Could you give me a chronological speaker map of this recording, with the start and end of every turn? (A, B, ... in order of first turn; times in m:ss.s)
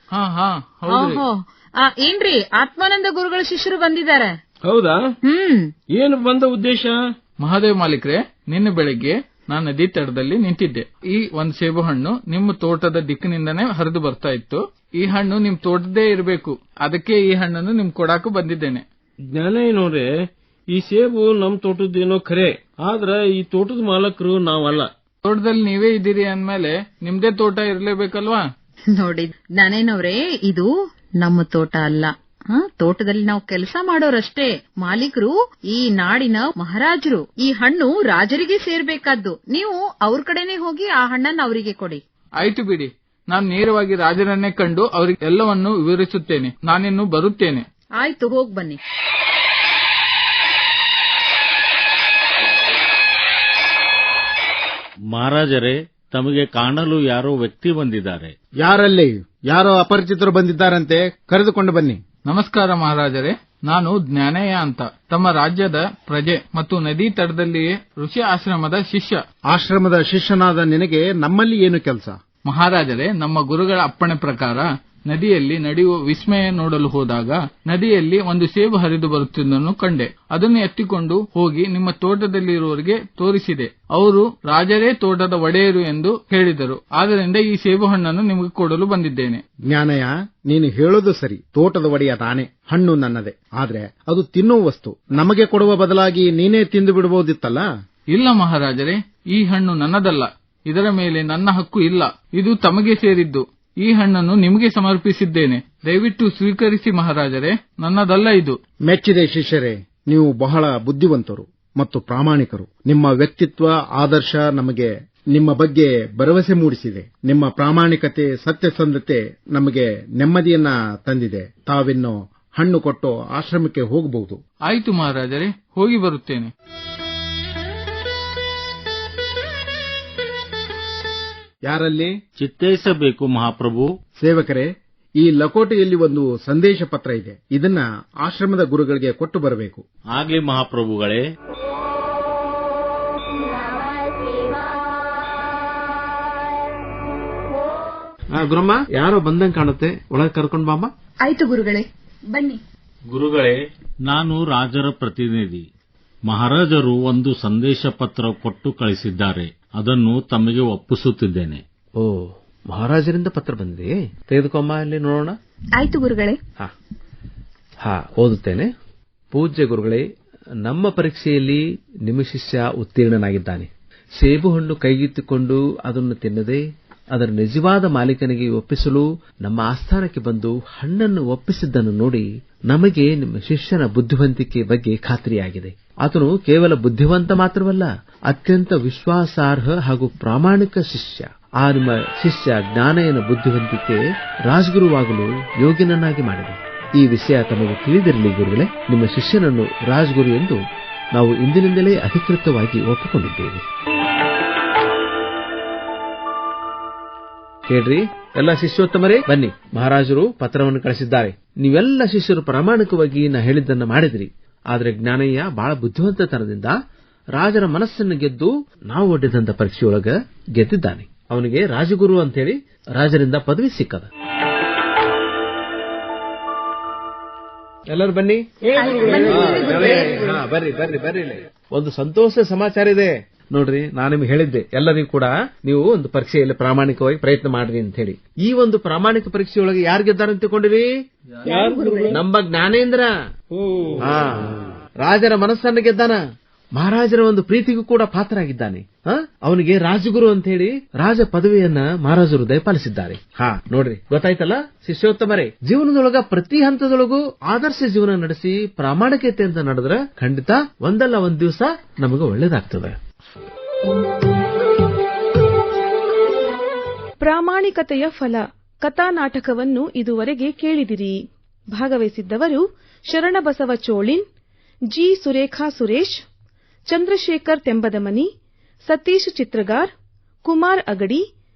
0:00.1-0:01.2 A
0:00.9-0:04.3 B
0:04.6-0:05.1 C
0:05.3-0:05.7 B
0:05.9-0:07.0 C
0:07.4-0:18.8 A
0:19.3-0:20.1 C
0:20.7-0:24.9 C
0:25.2-0:28.5 A
0:29.0-0:42.0 B
0:42.4-0:47.6 A
0:48.0-0:48.8 B
0:55.1-0:58.3 D
0:58.6-1:02.0 E
1:02.3-1:09.2 A
1:09.5-1:12.2 E
1:12.5-1:29.4 A
1:29.7-1:37.7 E
1:38.1-1:48.6 A
1:48.9-2:04.4 E
2:04.7-2:06.5 A
2:11.7-2:12.1 E
2:12.4-2:13.9 D
2:14.2-2:14.7 E
2:15.2-2:19.8 E
2:20.1-2:21.2 D
2:28.3-2:30.9 F
2:31.2-2:32.6 G
2:33.1-2:35.7 D
2:36.3-2:41.6 D
2:42.0-2:45.4 F
2:45.8-2:46.4 G
2:47.8-2:48.7 F
2:49.3-2:50.0 F
2:50.6-3:20.6 F
3:21.1-3:23.6 F
3:27.7-3:36.8 F
3:37.4-3:44.1 F
3:47.9-3:48.4 F
3:48.7-3:50.2 C
3:48.7-3:50.3 G
3:49.3-4:00.9 F
4:01.4-4:02.1 C
4:01.4-4:02.2 G
4:02.1-4:03.1 F
4:04.0-4:04.5 F
4:05.0-4:06.2 F
4:06.8-4:23.0 F
4:27.2-4:34.2 H
4:34.9-4:36.2 H
4:36.9-4:38.3 H
4:38.8-4:39.9 H
4:40.4-4:41.2 H